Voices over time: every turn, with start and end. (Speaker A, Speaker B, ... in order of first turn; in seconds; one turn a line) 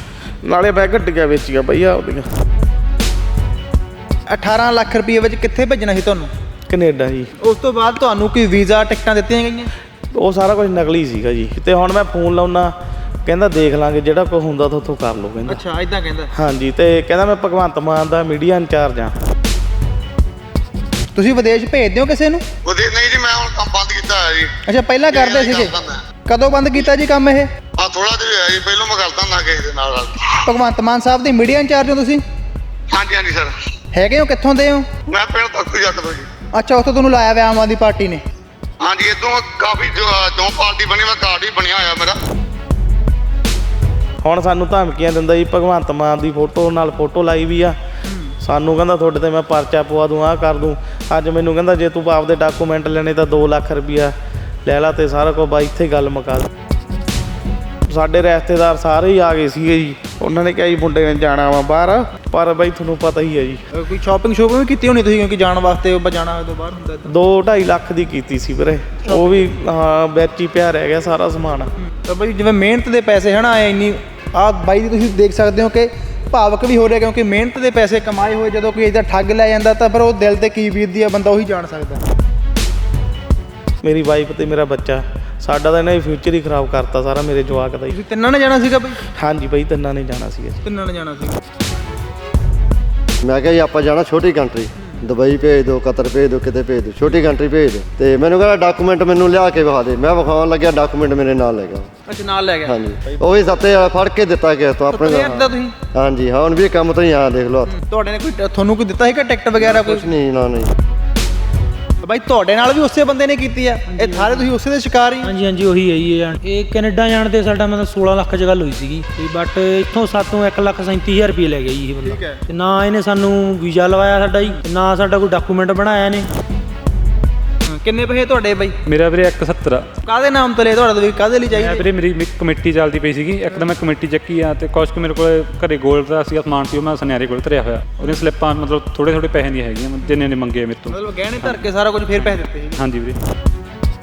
Speaker A: 0.4-2.3
Speaker B: 4.3-6.3
Speaker A: 6.7-7.3
Speaker B: 7.4-9.7
Speaker A: 10.1-15.6
Speaker B: 15.5-16.3
Speaker A: 16.3-19.2
Speaker B: 21.1-22.4
Speaker C: 22.6-24.5
Speaker B: 24.7-27.5
Speaker C: 25.1-26.0
Speaker C: 27.8-30.2
Speaker B: 30.5-32.2
Speaker C: 32.9-33.5
Speaker B: 33.9-34.9
Speaker C: 35.1-36.3
Speaker B: 36.5-38.2
Speaker C: 38.8-42.1
Speaker A: 44.2-47.8
Speaker B: 48.1-48.4
Speaker A: 48.4-54.1
Speaker A: 54.6-56.5
Speaker A: 57.9-63.6
Speaker B: 63.7-67.1
Speaker A: 67.1-71.7
Speaker B: 69.0-69.4
Speaker B: 71.8-82.0
Speaker A: 83.8-88.0
Speaker B: 87.9-89.0
Speaker A: 89.1-90.6
Speaker B: 90.6-91.4
Speaker D: 93.2-101.9
Speaker B: 102.1-102.8
Speaker D: 102.7-107.7
Speaker B: 104.9-105.7
Speaker B: 107.7-110.1
Speaker D: 109.6-110.7
Speaker B: 112.0-115.3
Speaker E: 113.9-114.5
Speaker E: 115.2-126.3
Speaker B: 122.0-122.5
Speaker B: 127.8-128.8
Speaker F: 128.9-129.9
Speaker B: 130.1-131.9
Speaker F: 131.5-141.6
Speaker B: 138.0-138.3
Speaker B: 140.9-142.8
Speaker F: 142.2-143.2